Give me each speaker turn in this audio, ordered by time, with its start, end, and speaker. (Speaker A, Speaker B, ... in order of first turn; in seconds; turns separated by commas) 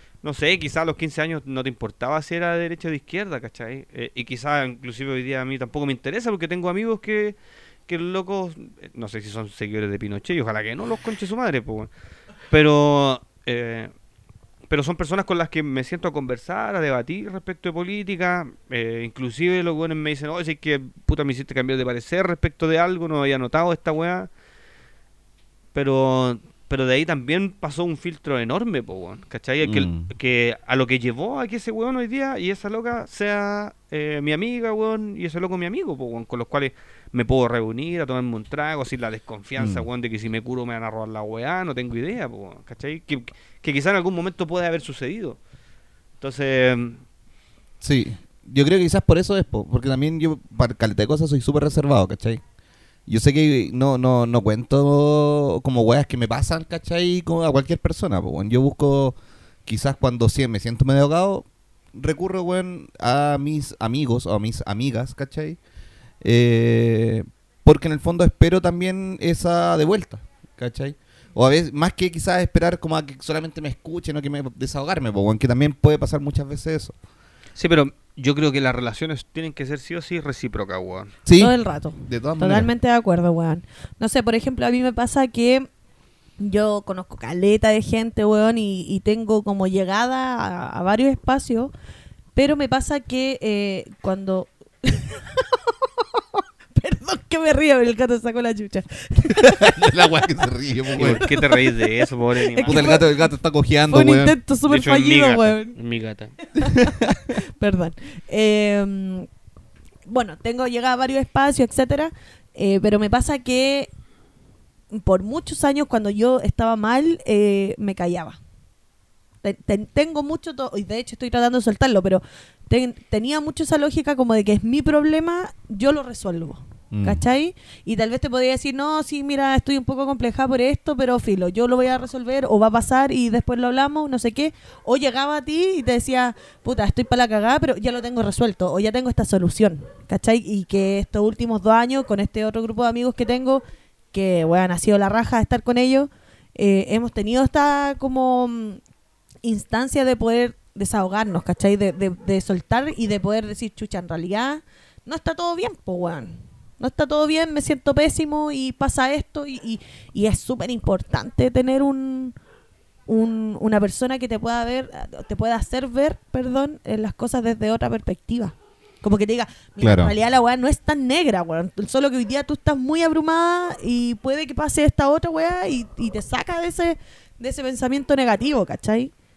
Speaker A: 0.2-11.9, Speaker A: 12.5-13.9, Speaker A: 14.7-24.3, Speaker A: 25.7-45.4, Speaker B: 29.6-30.1, Speaker B: 39.6-39.9, Speaker A: 46.2-47.0, Speaker B: 47.8-52.4, Speaker B: 53.1-65.6, Speaker B: 66.2-77.0, Speaker A: 77.6-81.1, Speaker B: 81.3-82.7, Speaker C: 81.4-85.7, Speaker C: 86.4-91.7, Speaker C: 92.3-99.9, Speaker B: 99.3-101.2, Speaker A: 101.0-103.0, Speaker C: 101.0-103.2, Speaker B: 102.6-104.4, Speaker C: 103.9-105.8, Speaker A: 104.7-106.3, Speaker C: 106.5-109.3, Speaker B: 106.6-107.2, Speaker C: 110.1-113.9, Speaker C: 114.9-118.4, Speaker C: 119.4-148.8, Speaker B: 126.9-127.2, Speaker C: 149.4-162.3, Speaker C: 163.1-179.1, Speaker B: 169.8-170.1